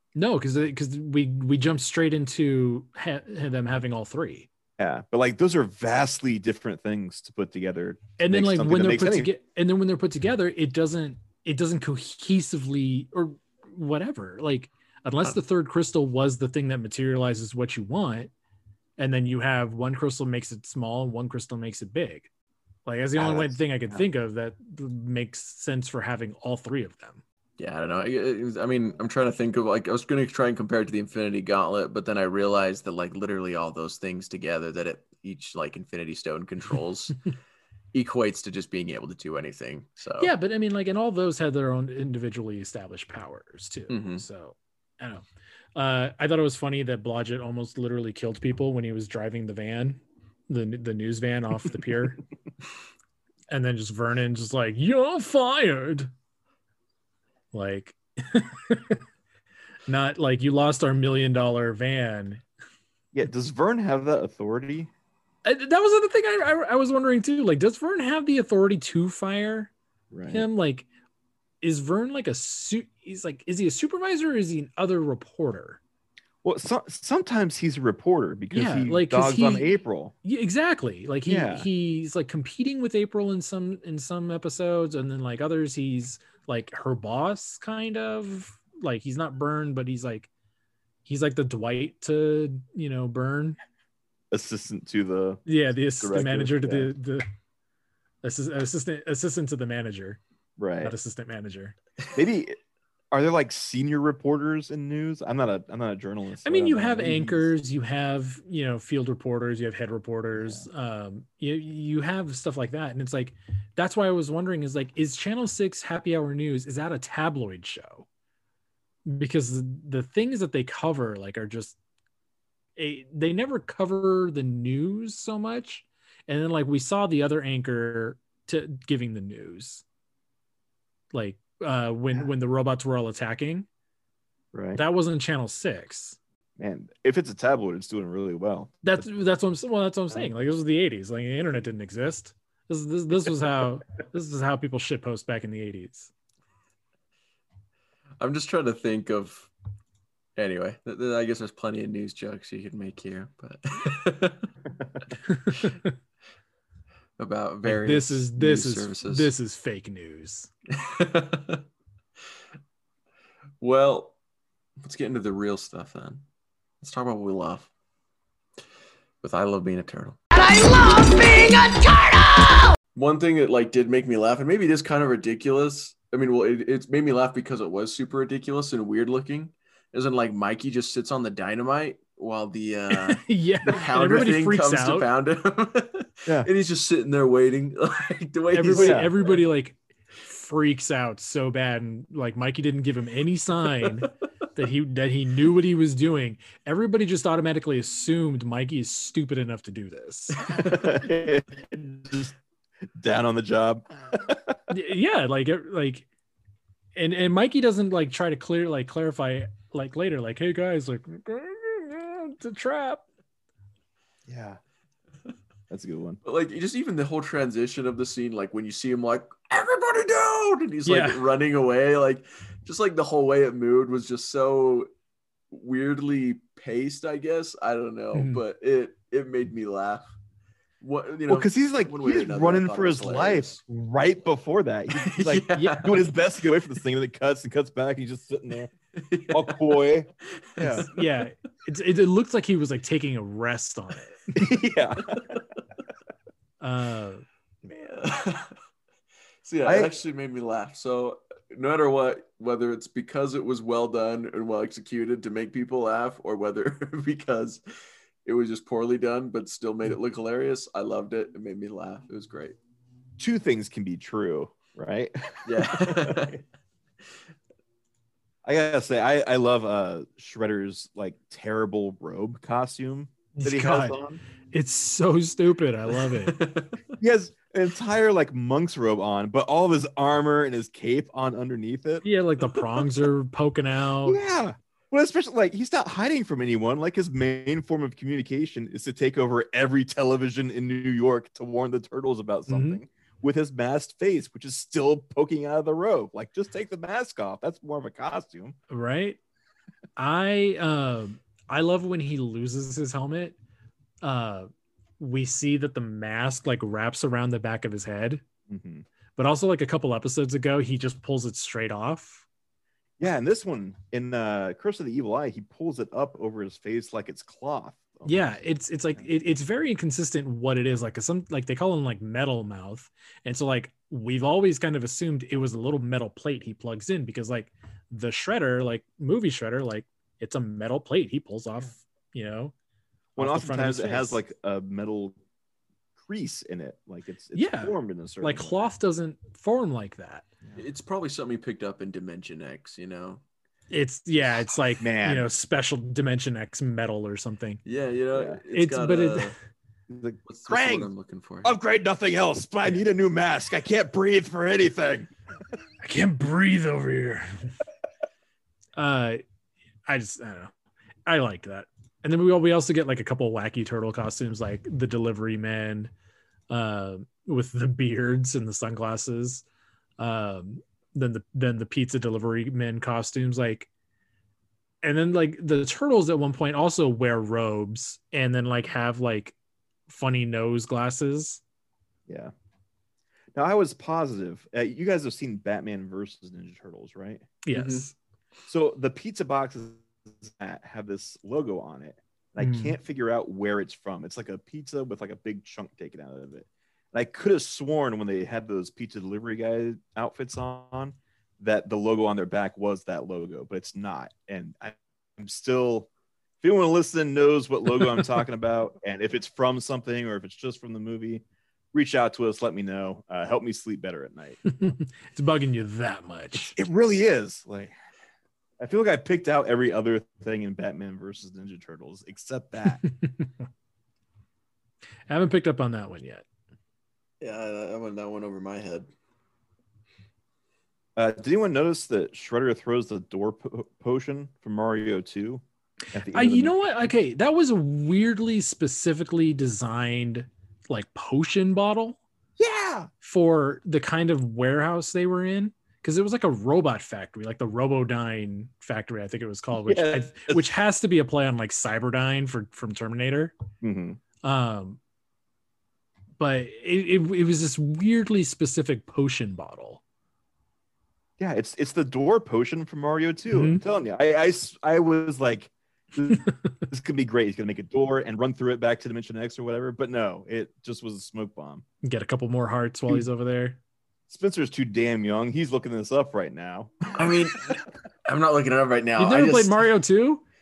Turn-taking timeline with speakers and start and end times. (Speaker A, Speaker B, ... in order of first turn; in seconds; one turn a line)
Speaker A: 0.1-4.5
Speaker B: 4.8-9.3
Speaker A: 8.2-18.3
Speaker A: 19.0-22.3
Speaker A: 22.9-27.2
Speaker B: 23.2-24.0
Speaker C: 27.6-37.2
Speaker C: 37.9-40.3
Speaker A: 40.2-52.2
Speaker C: 43.9-44.2
Speaker A: 53.5-56.1
Speaker A: 57.5-59.0
Speaker A: 59.9-62.4
Speaker B: 63.1-64.9
Speaker A: 65.4-69.7
Speaker B: 70.1-70.5
Speaker A: 70.3-70.9
Speaker A: 71.6-75.8
Speaker B: 76.4-80.1
Speaker A: 78.5-79.7
Speaker A: 80.2-90.3
Speaker B: 81.3-81.7
Speaker A: 91.0-93.6
Speaker B: 94.3-96.9
Speaker A: 95.5-97.2
Speaker A: 98.2-100.2
Speaker B: 100.6-100.9
Speaker A: 100.8-101.8
Speaker B: 102.1-102.6
Speaker B: 103.1-107.5
Speaker A: 106.4-118.0
Speaker B: 110.4-110.7
Speaker A: 119.0-121.8
Speaker A: 122.8-129.8
Speaker A: 131.1-133.7
Speaker B: 134.5-134.8
Speaker A: 134.7-136.2
Speaker B: 136.6-139.0
Speaker A: 138.8-146.1
Speaker C: 148.2-149.5
Speaker C: 150.4-154.5
Speaker A: 155.2-155.9
Speaker C: 157.2-159.3
Speaker A: 157.6-160.5
Speaker C: 160.7-161.6
Speaker C: 163.6-164.1
Speaker C: 164.8-166.2
Speaker C: 166.8-167.7
Speaker C: 169.2-170.2
Speaker D: 170.3-172.8
Speaker C: 172.9-189.4
Speaker A: 182.9-185.1
Speaker A: 188.5-200.4
Speaker B: 188.7-189.1
Speaker B: 200.5-202.3
Speaker B: 202.9-204.6
Speaker A: 204.7-206.1
Speaker A: 206.9-213.0
Speaker B: 214.3-214.6
Speaker B: 215.7-216.2
Speaker C: 216.2-224.9
Speaker A: 220.8-221.2
Speaker C: 225.5-230.1
Speaker A: 228.1-228.4
Speaker C: 230.8-233.6
Speaker B: 231.3-238.7
Speaker C: 234.9-236.0
Speaker A: 235.5-235.8
Speaker C: 238.9-239.7
Speaker B: 239.3-240.8
Speaker C: 240.4-241.1
Speaker A: 240.9-244.2
Speaker B: 244.3-245.4
Speaker A: 246.6-247.2
Speaker C: 247.7-248.5
Speaker C: 249.4-257.6
Speaker B: 249.6-249.9
Speaker C: 258.2-262.6
Speaker B: 263.2-266.4
Speaker C: 265.4-266.4
Speaker B: 268.4-274.2
Speaker A: 273.4-274.0
Speaker A: 274.5-276.4
Speaker C: 276.2-276.8
Speaker B: 277.0-282.0
Speaker A: 282.0-284.2
Speaker B: 284.1-298.6
Speaker A: 292.5-292.8
Speaker A: 298.7-299.2
Speaker A: 300.0-303.4
Speaker A: 304.0-308.2
Speaker B: 308.5-308.8
Speaker A: 309.1-312.2
Speaker B: 313.0-318.2
Speaker A: 318.0-332.5
Speaker B: 333.1-335.2
Speaker A: 333.2-334.2
Speaker B: 336.0-338.7
Speaker A: 337.3-340.2
Speaker C: 340.6-343.2
Speaker A: 343.7-347.6
Speaker B: 344.8-345.3
Speaker C: 347.6-349.3
Speaker B: 348.1-348.4
Speaker A: 348.5-349.3
Speaker B: 349.9-350.9
Speaker C: 350.3-351.5
Speaker B: 351.4-355.1
Speaker A: 355.8-357.5
Speaker A: 358.8-359.2
Speaker A: 359.9-360.5
Speaker A: 361.1-365.9
Speaker A: 366.5-369.4
Speaker A: 370.0-373.7
Speaker A: 374.8-379.3
Speaker A: 379.9-381.4
Speaker B: 382.1-382.3
Speaker B: 383.3-387.3
Speaker A: 387.4-387.9
Speaker C: 387.5-387.9
Speaker B: 388.5-405.9
Speaker A: 392.4-392.8
Speaker B: 406.4-414.7
Speaker A: 414.5-416.6
Speaker B: 416.3-417.7
Speaker B: 418.6-422.8
Speaker A: 422.8-423.4
Speaker A: 425.1-426.2
Speaker C: 427.2-428.9
Speaker B: 430.9-435.4
Speaker B: 435.9-436.6
Speaker A: 436.0-442.0
Speaker B: 442.4-442.9
Speaker A: 443.0-453.3
Speaker B: 449.6-450.5
Speaker B: 453.6-454.0
Speaker A: 454.2-454.8
Speaker A: 456.2-459.8
Speaker B: 461.2-471.6
Speaker A: 463.3-463.6
Speaker A: 471.8-473.6
Speaker B: 474.1-477.2
Speaker C: 477.0-479.6
Speaker A: 479.0-480.2